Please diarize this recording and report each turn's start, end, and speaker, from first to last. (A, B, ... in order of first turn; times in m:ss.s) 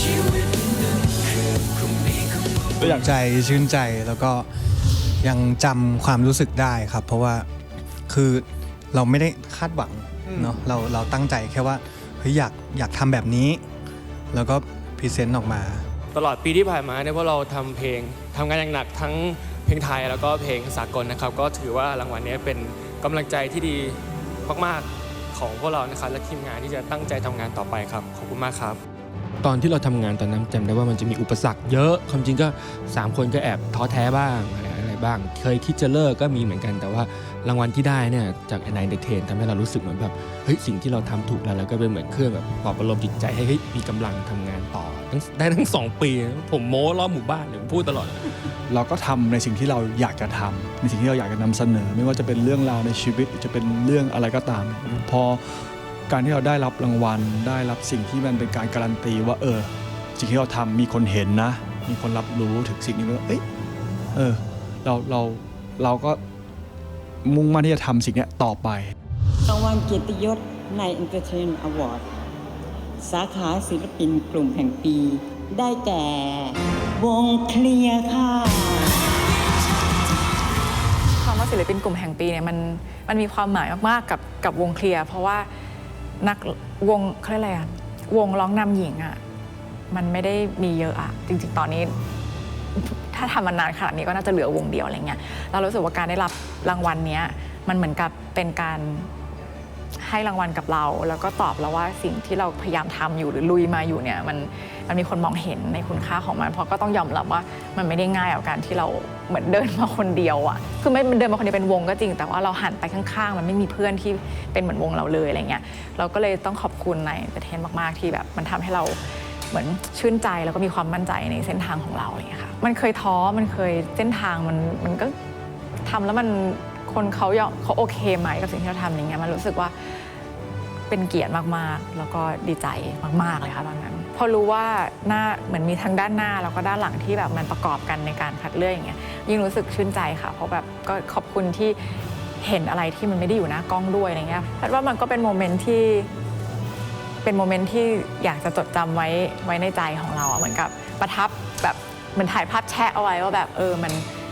0:02.8-0:03.1 A
0:02.8-0:04.5 B
0:05.2-0:07.5 B
0:08.1-0:13.6 B
0:14.3-0:15.8 B
0:16.1-0:28.8 C
0:29.4-0:48.3 D
0:48.7-0:55.4 A
0:56.1-1:03.4 A
1:04.1-1:06.2 A
1:07.2-1:08.9 A
1:09.5-1:12.1 E
1:13.0-1:19.1 E
1:21.2-1:25.5 F
1:26.2-1:29.2 F
1:29.9-1:31.9 F
1:32.7-1:39.1 F
1:40.0-2:05.1 F
2:05.8-2:10.0 F
2:10.9-2:21.8 F
2:22.4-2:26.1 F
2:27.2-2:34.0 F